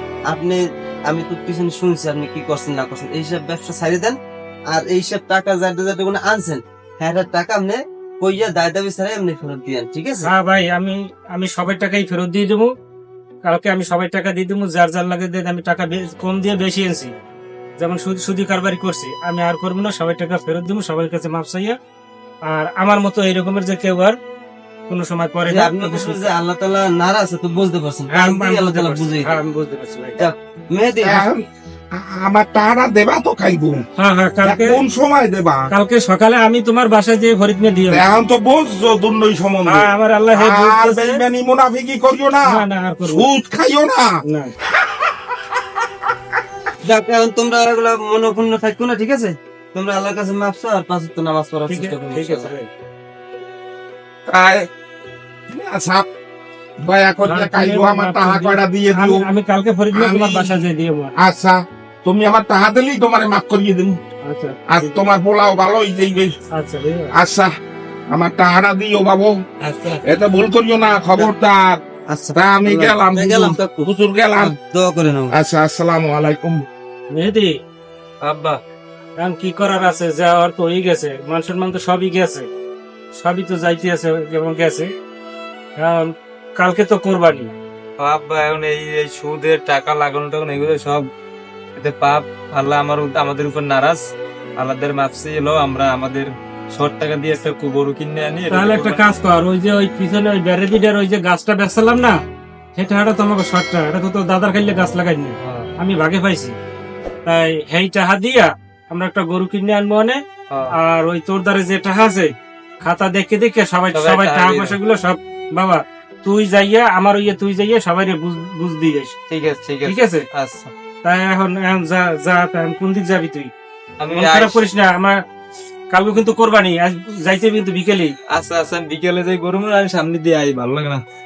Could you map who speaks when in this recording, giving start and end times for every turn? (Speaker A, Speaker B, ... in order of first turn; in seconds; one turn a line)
Speaker A: 0.3-4.2
Speaker A: 4.7-10.3
Speaker B: 10.2-12.7
Speaker B: 13.5-17.1
Speaker B: 17.8-21.8
Speaker B: 22.5-24.2
Speaker B: 24.9-26.3
Speaker A: 25.5-29.4
Speaker B: 28.1-30.2
Speaker A: 30.2-31.3
Speaker C: 31.0-33.8
Speaker B: 34.0-34.8
Speaker C: 34.4-35.6
Speaker B: 35.7-38.0
Speaker C: 37.9-44.1
Speaker B: 39.7-41.2
Speaker B: 42.5-43.3
Speaker B: 44.3-44.5
Speaker C: 44.8-45.1
Speaker A: 46.9-52.5
Speaker B: 51.7-52.7
Speaker C: 54.3-54.7
Speaker C: 55.5-56.1
Speaker C: 56.8-59.3
Speaker B: 57.2-61.1
Speaker C: 59.9-60.6
Speaker C: 61.2-64.0
Speaker B: 64.2-65.0
Speaker C: 64.7-66.3
Speaker B: 66.5-67.1
Speaker C: 67.1-67.5
Speaker C: 68.1-69.4
Speaker D: 69.6-70.0
Speaker C: 70.0-71.8
Speaker A: 72.1-75.3
Speaker C: 72.3-74.5
Speaker C: 75.3-76.7
Speaker B: 77.1-77.5
Speaker D: 78.2-78.6
Speaker B: 79.2-82.5
Speaker B: 83.2-84.9
Speaker B: 85.8-87.5
Speaker D: 88.0-91.1
Speaker D: 91.8-94.0
Speaker D: 94.6-99.1
Speaker B: 98.5-102.2
Speaker B: 102.8-106.5
Speaker D: 105.4-105.7
Speaker B: 107.3-110.2
Speaker B: 110.7-112.3
Speaker B: 112.8-119.1
Speaker D: 113.9-114.8
Speaker D: 119.3-120.7
Speaker B: 119.8-120.2
Speaker B: 121.0-123.5
Speaker D: 124.0-124.6
Speaker B: 124.1-125.2
Speaker B: 125.9-128.1
Speaker D: 128.3-131.0